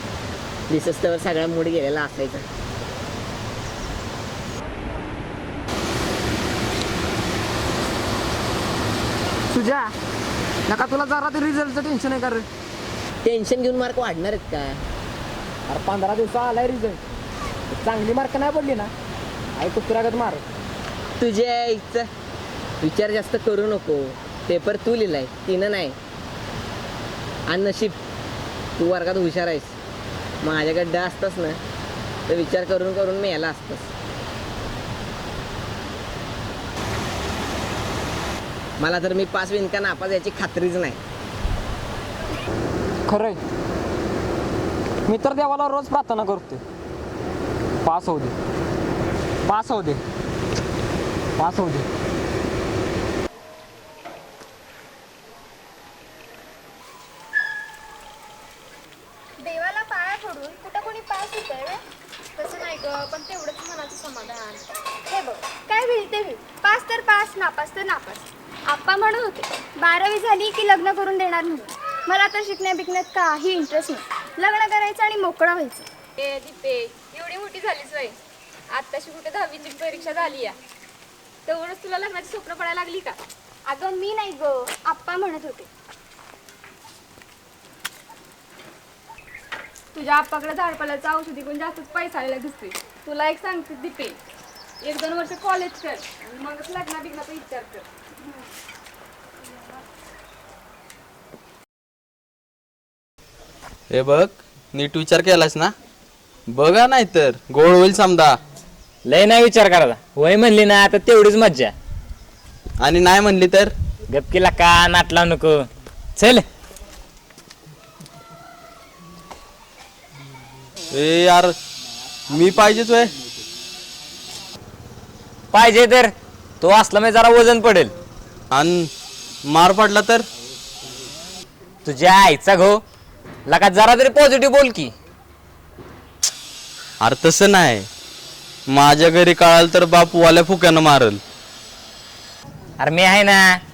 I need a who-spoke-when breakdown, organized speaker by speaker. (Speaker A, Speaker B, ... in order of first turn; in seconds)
Speaker A: 0.7-2.5, 13.2-14.8, 21.2-22.1, 22.8-26.0, 27.5-28.0, 28.8-29.7, 30.4-31.6, 32.3-33.9, 38.8-41.0
Speaker B: 9.5-9.9, 10.7-12.4, 15.7-17.0, 17.8-18.9, 19.6-20.4, 43.1-43.4, 45.1-46.6, 47.9-48.4, 49.5-50.0, 51.4-51.9
Speaker C: 59.4-61.8, 65.1-75.9, 83.7-85.7, 90.0-91.0
Speaker D: 62.4-64.6, 76.2-78.1, 78.7-80.5, 81.5-83.2, 90.1-94.2, 94.8-97.8
Speaker E: 103.9-105.7, 106.5-108.4, 112.8-113.7, 120.9-121.5, 122.3-123.1, 128.5-128.9, 129.5-130.3, 137.0-137.9, 138.7-141.2
Speaker F: 109.0-111.7, 114.1-115.7, 116.2-116.5, 125.5-127.9, 131.8-132.8, 133.5-134.9, 142.8-143.6